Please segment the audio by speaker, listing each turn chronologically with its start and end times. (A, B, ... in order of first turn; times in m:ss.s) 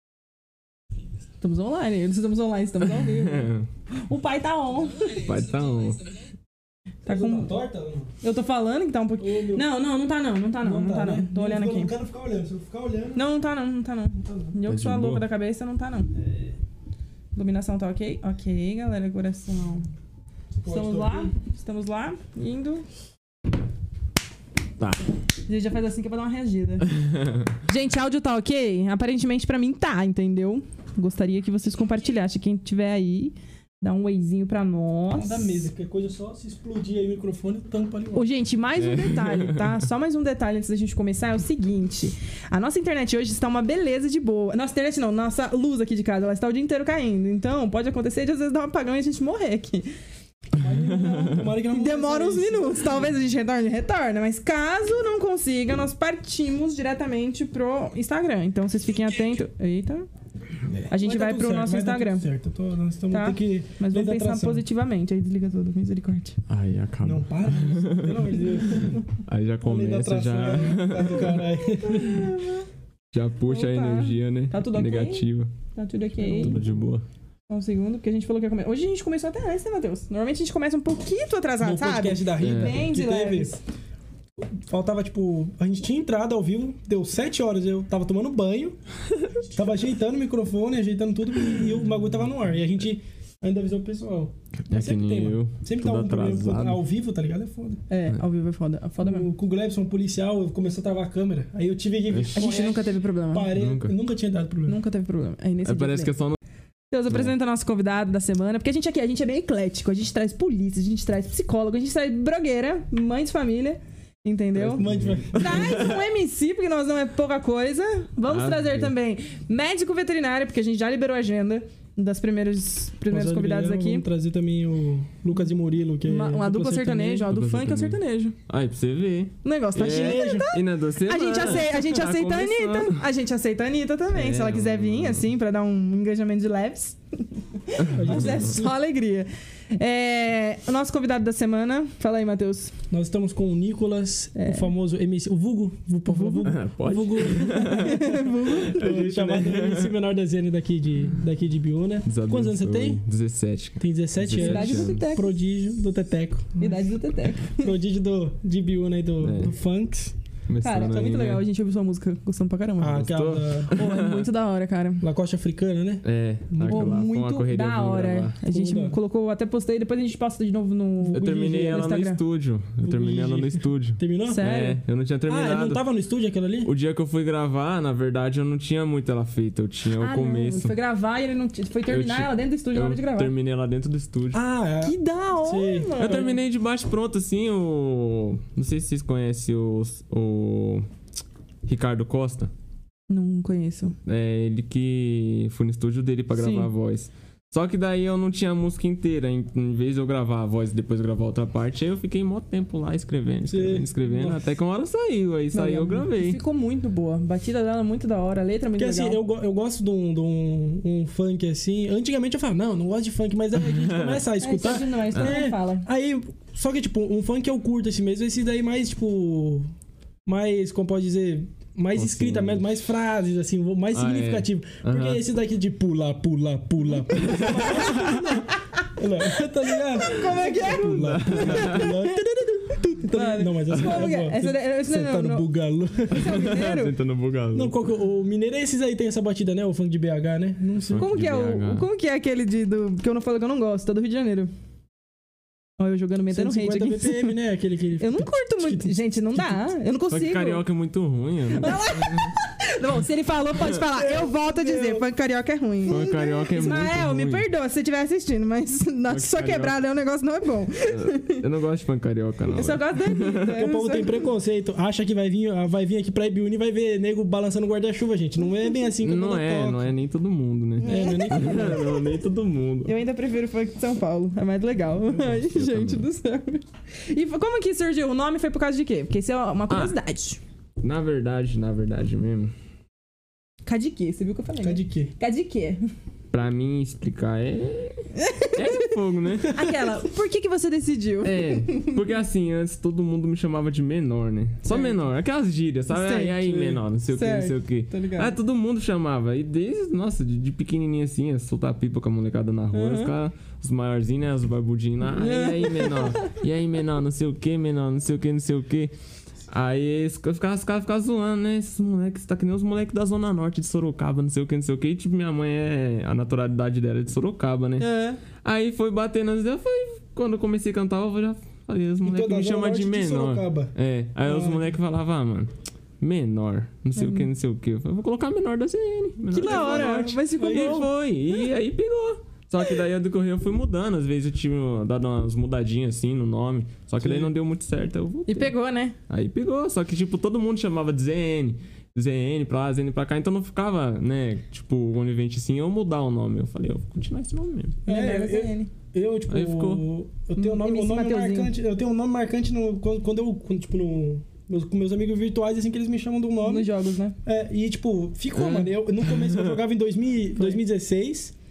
0:01.4-0:05.2 A
0:02.9-0:03.7 B
0:05.1-0:06.0 B
0:07.0-0:07.5 A
0:07.0-0:08.1 C
0:08.2-0:11.9 A
0:09.2-0:09.6 C
0:10.6-0:13.2 C
0:13.1-0:16.1 A
0:14.2-0:14.5 C
0:14.7-0:15.2 B
0:16.1-0:16.6 C
0:17.3-0:19.9 A
0:20.6-0:21.3 C
0:20.7-0:22.8 A
0:25.5-0:26.9 A
0:27.0-0:27.4 B
0:27.6-0:35.7 A
0:35.1-0:38.3 C
0:38.1-0:49.9 A
0:38.8-0:39.8 B
0:50.6-0:53.1 C
0:51.1-0:51.3 B
0:51.7-1:00.1 A
1:00.9-1:02.2 A
1:00.9-1:04.6 C
1:03.1-1:06.4 A
1:06.5-1:08.4 B
1:07.0-1:09.0 C
1:09.2-1:11.4 B
1:09.6-1:12.3 C
1:11.8-1:12.6 A
1:13.1-1:15.5 B
1:13.5-1:16.6 A
1:16.2-1:17.0 B
1:16.4-1:16.7 C
1:17.5-1:23.6 A
1:21.6-1:23.6 C
1:22.4-1:22.8 B
1:24.4-1:28.8 C
1:29.4-1:37.8 C
1:34.7-1:36.8 B
1:37.9-1:39.3 A
1:39.0-1:44.8 C
1:42.1-1:42.4 B
1:42.3-1:43.5 A
1:43.5-1:43.9 B
1:44.7-1:46.1 A
1:45.6-1:46.4 B
1:46.9-2:04.0 A
1:54.6-1:56.0 B
1:54.7-1:55.9 C
1:58.3-1:58.9 B
2:03.1-2:07.3 C
2:06.0-2:08.4 A
2:07.3-2:13.0 B
2:09.4-2:22.7 A
2:09.8-2:10.5 C
2:14.1-2:15.2 B
2:17.8-2:18.5 B
2:18.0-2:18.7 C
2:22.9-2:33.0 C
2:24.3-2:24.7 A
2:26.1-2:26.5 A
2:26.4-2:29.9 B
2:27.2-2:28.8 A
2:32.0-2:35.1 B
2:33.8-2:36.9 C
2:34.3-2:35.3 A
2:36.6-2:37.7 A
2:37.4-2:40.1 C
2:39.2-2:39.5 B
2:40.5-2:41.4 B
2:40.6-2:43.1 A
2:42.8-2:43.7 C
2:42.9-2:44.3 B
2:43.7-2:45.0 A
2:45.0-2:47.0 C
2:46.0-2:48.4 B
2:46.6-2:52.2 A
2:48.5-2:49.0 C
2:51.0-2:51.8 C
2:51.1-2:55.8 B
2:52.8-2:54.5 C
2:54.3-2:54.8 A
2:55.3-2:56.7 C
2:56.6-3:00.7 B
3:00.0-3:03.3 A
3:01.9-3:04.4 B
3:04.3-3:06.3 C
3:04.8-3:06.4 A
3:06.0-3:10.8 B
3:11.6-3:12.5 B
3:13.1-3:13.9 A
3:14.0-3:26.4 B
3:16.3-3:16.7 A
3:23.4-3:24.4 C
3:25.5-3:29.2 A
3:28.8-3:39.7 C
3:33.6-3:35.4 B
3:34.4-3:35.8 A
3:40.2-3:48.4 C
3:41.9-3:42.6 B
3:43.9-3:45.2 B
3:47.1-3:48.3 B
3:47.2-3:52.1 A
3:49.0-3:56.3 C
3:50.9-3:51.9 B
3:53.1-3:55.4 A
3:56.1-3:56.9 A
3:56.2-3:57.7 B
3:57.5-4:01.1 C
4:00.9-4:01.8 B
4:00.9-4:04.5 A
4:05.8-4:07.3 A
4:06.3-4:09.6 C
4:08.0-4:10.6 A
4:10.1-4:12.3 B
4:11.6-4:21.4 A
4:13.9-4:15.1 C
4:15.9-4:17.4 B
4:19.1-4:19.7 B
4:20.9-4:23.5 B
4:22.5-4:24.1 A
4:23.5-4:29.9 C
4:29.0-4:32.9 B
4:30.8-4:31.9 C
4:30.8-4:32.0 A
4:32.8-4:40.4 A
4:35.1-4:36.1 B
4:39.7-4:40.0 B
4:40.8-4:42.5 B
4:43.6-4:45.8 A
4:44.6-4:45.1 C
4:46.3-4:48.0 B
4:48.2-4:48.9 A
4:48.5-4:49.6 B
4:49.5-4:52.0 A
4:51.2-5:08.9 B
4:54.6-4:55.0 A
4:55.9-4:58.3 A
5:02.7-5:03.1 A
5:05.1-5:06.3 A
5:09.5-5:17.9 B
5:17.8-5:18.2 A
5:18.4-5:38.5 B
5:22.0-5:23.7 C
5:24.2-5:24.7 C
5:27.0-5:27.3 A
5:29.3-5:30.9 A
5:29.4-5:30.8 C
5:37.0-5:37.3 C
5:38.3-5:39.0 A
5:39.1-5:47.8 B
5:47.8-5:56.7 C
5:47.9-5:48.7 A
5:49.3-5:49.8 B
5:50.4-5:51.5 A
5:56.4-5:57.1 A
5:57.2-6:01.3 C
5:58.4-5:59.5 B